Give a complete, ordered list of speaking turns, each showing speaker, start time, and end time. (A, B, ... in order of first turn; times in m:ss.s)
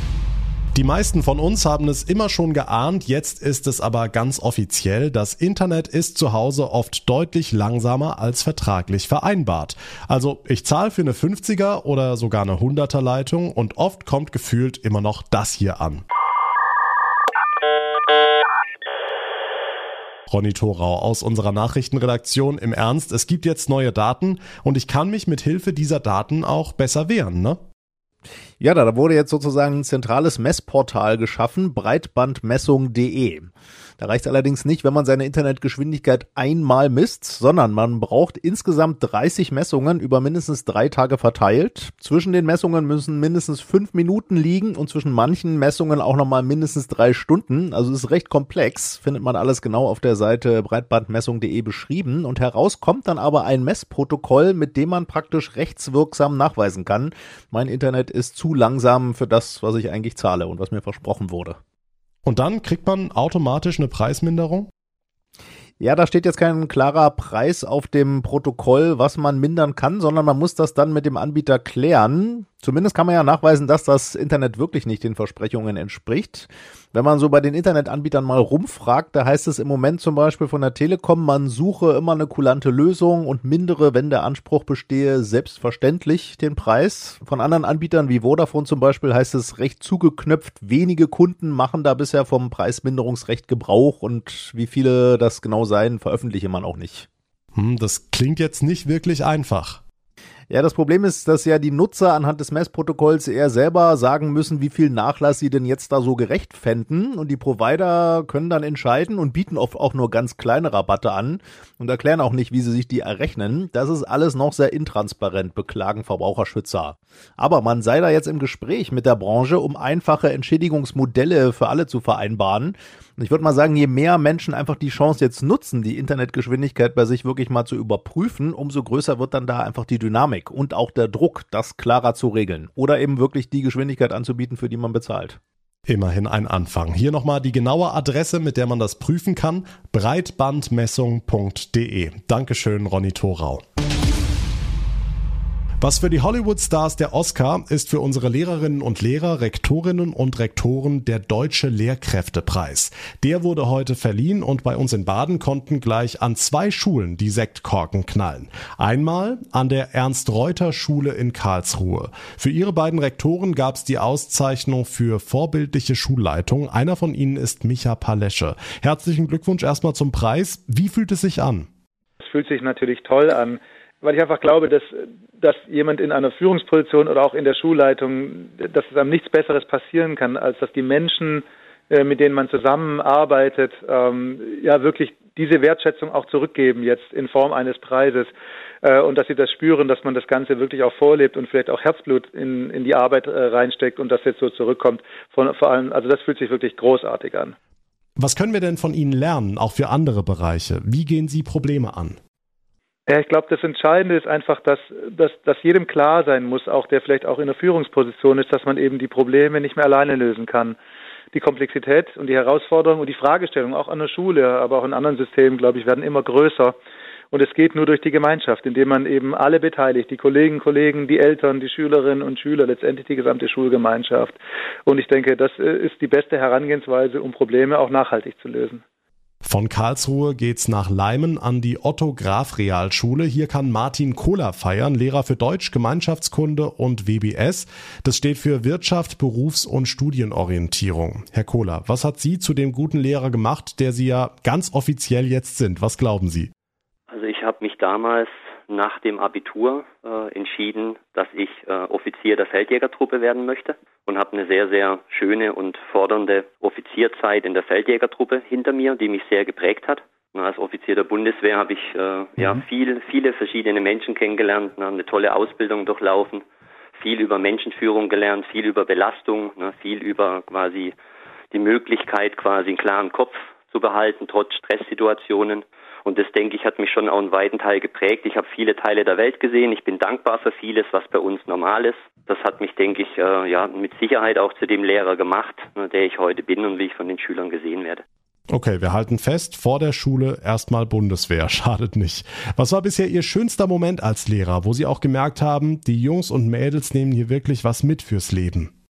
0:00.7-0:16.0 A
0:20.3-0:27.6 A
0:28.6-1:01.6 B
1:02.2-1:04.7 A
1:05.8-1:37.0 B
1:37.5-1:39.8 A
1:40.5-2:15.4 B
2:15.9-2:23.6 A
2:25.8-2:51.7 A
2:52.2-3:08.3 C
3:08.8-3:17.5 C
3:18.2-3:22.2 A
3:23.1-3:30.8 C
3:31.3-3:36.7 C
3:37.3-3:48.8 C
3:49.4-4:06.5 A
4:07.1-4:26.4 D
4:27.0-4:30.9 D
4:31.5-4:48.0 D
4:48.5-4:58.7 A